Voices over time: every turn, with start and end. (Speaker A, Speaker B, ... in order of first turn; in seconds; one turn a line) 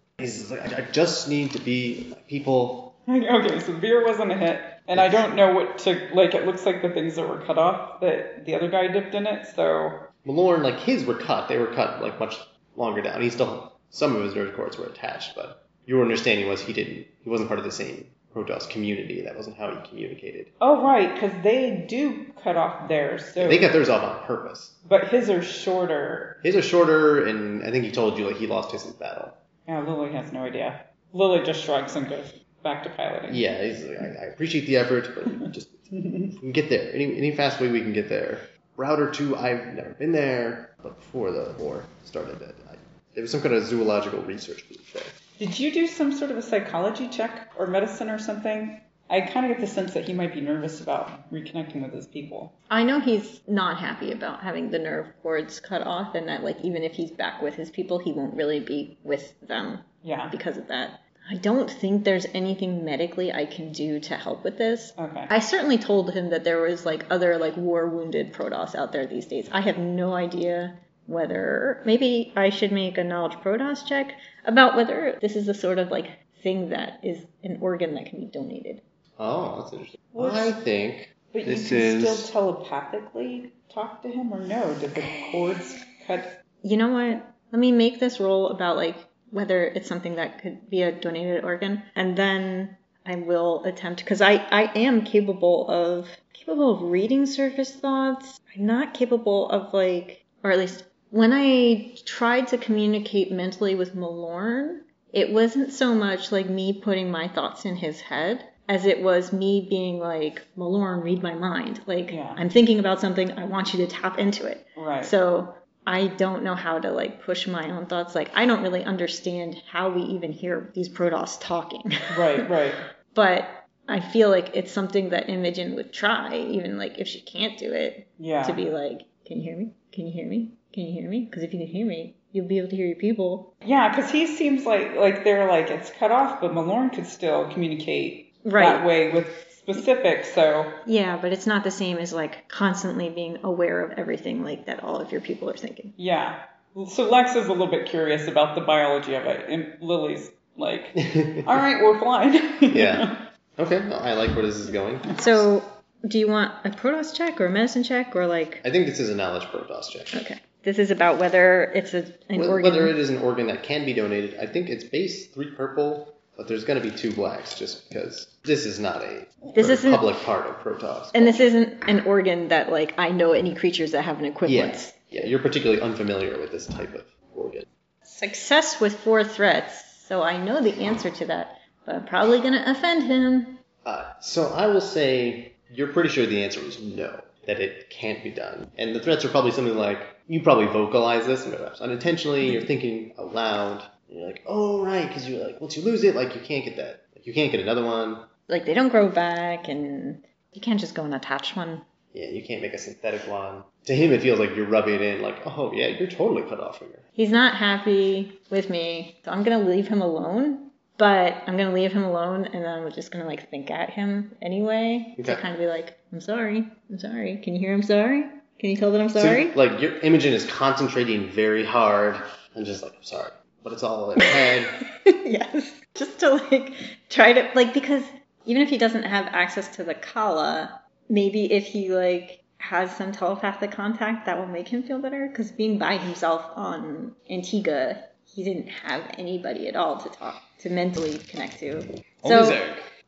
Speaker A: 0.2-2.9
Speaker B: 3.1-10.1
Speaker A: 4.9-5.3
Speaker A: 10.2-20.5
Speaker B: 20.6-23.8
Speaker A: 23.4-24.8
Speaker B: 24.9-26.4
Speaker A: 26.4-29.4
Speaker B: 29.7-33.4
Speaker A: 33.3-45.2
Speaker B: 36.0-36.3
Speaker B: 45.4-52.5
Speaker C: 52.7-78.8
Speaker B: 60.0-60.3
Speaker B: 65.0-65.3
Speaker A: 79.2-82.3
Speaker B: 80.1-80.6
Speaker B: 81.3-86.3
Speaker C: 86.6-122.5
Speaker B: 112.1-112.4
Speaker B: 114.8-115.1
Speaker B: 122.1-122.8
Speaker C: 123.1-133.5
Speaker B: 128.2-128.6
Speaker B: 133.6-140.8
Speaker C: 138.4-138.9
Speaker C: 140.8-145.9
Speaker B: 146.0-153.2
Speaker A: 151.0-151.6
Speaker A: 152.7-155.5
Speaker C: 155.2-158.6
Speaker A: 158.6-160.2
Speaker C: 160.1-163.0
Speaker A: 162.3-171.5
Speaker C: 169.5-170.1
Speaker C: 171.1-175.0
Speaker A: 174.5-177.7
Speaker C: 178.1-183.6
Speaker A: 183.8-198.3
Speaker C: 198.5-201.8
Speaker A: 202.1-207.0
Speaker C: 207.2-219.6
Speaker A: 215.2-215.4
Speaker A: 219.2-224.8
Speaker C: 225.0-242.6
Speaker A: 242.2-242.9